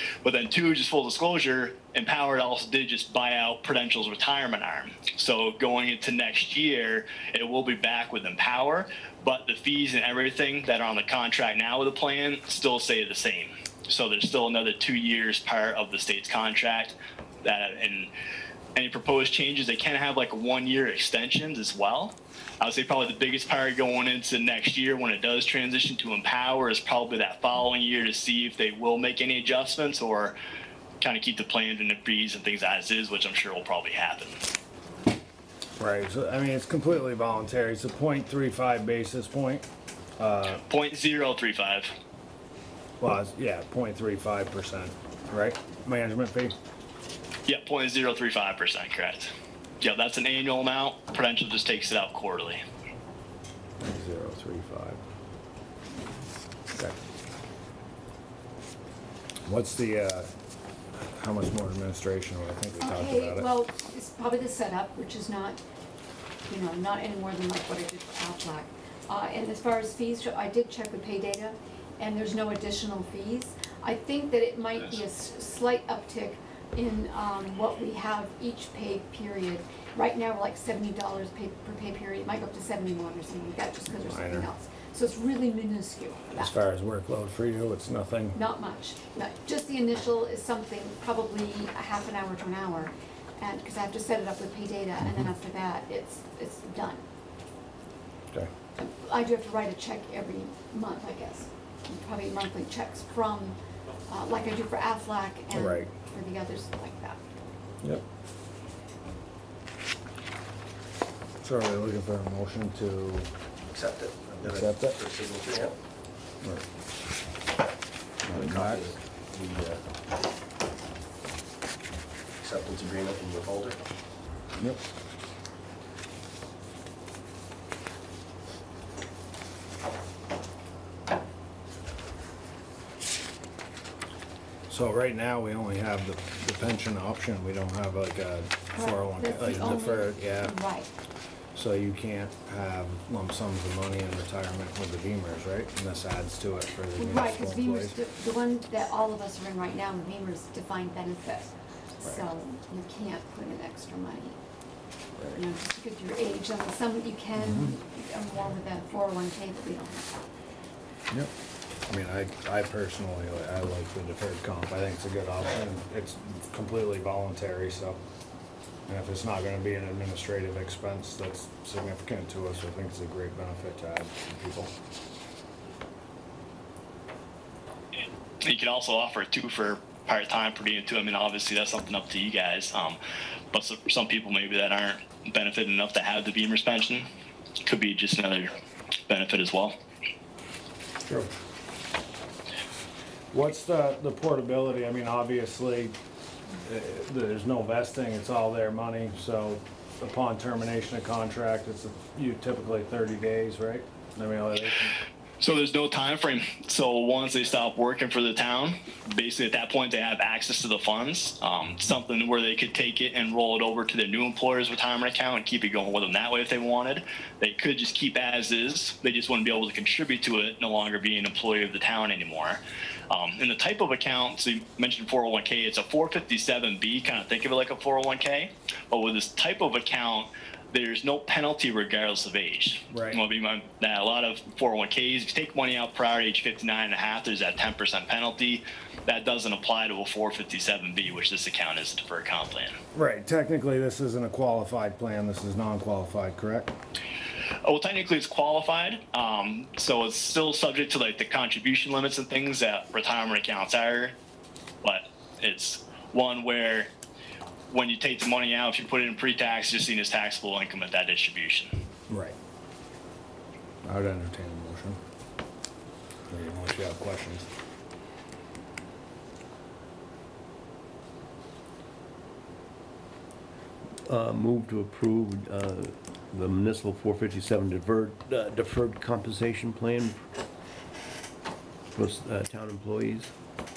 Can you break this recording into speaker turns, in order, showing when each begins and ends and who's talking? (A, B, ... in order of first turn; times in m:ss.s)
0:00.2-0:18.1 A
0:18.8-0:30.4 A
0:31.0-0:34.5 A
0:35.8-0:39.7 B
0:40.2-0:40.6 B
0:40.7-0:41.9 A
0:43.0-0:46.6 B
0:47.5-0:52.6 A
0:53.8-0:55.0 B
0:56.7-0:57.0 B
0:59.5-1:00.3 B
1:01.0-1:03.5 B
1:02.8-1:05.6 C
1:06.5-1:26.6 C
1:24.0-1:24.5 B
1:26.3-1:28.4 B
1:28.3-1:37.0 C
1:38.8-1:43.6 C
1:44.1-1:47.2 C
1:45.5-1:45.9 B
1:51.4-1:53.3 B
1:53.7-1:55.7 D
1:54.4-1:55.0 B
1:58.2-1:58.9 B
1:58.3-1:59.8 D
2:02.4-2:03.8 D
2:14.7-2:20.6 B
2:18.7-2:20.9 C
2:21.5-2:28.0 B
2:27.0-2:34.4 C
2:35.3-2:40.2 C
2:37.4-2:37.7 B
2:41.9-2:48.0 B
2:48.9-2:54.7 B
2:58.4-3:03.0 A
3:03.5-3:07.1 A
3:07.7-3:08.5 A
3:09.1-3:09.8 A
3:13.3-3:16.0 B
3:16.6-3:25.0 B
3:25.4-4:02.8 A
3:52.9-3:53.2 B
4:02.9-4:06.7 B
4:07.6-4:14.2 A
4:14.8-4:16.9 A
4:17.7-4:21.7 A
4:22.1-4:22.4 B
4:23.8-4:25.0 B
4:26.3-4:27.5 B
4:34.1-4:40.2 E
4:41.9-4:43.3 E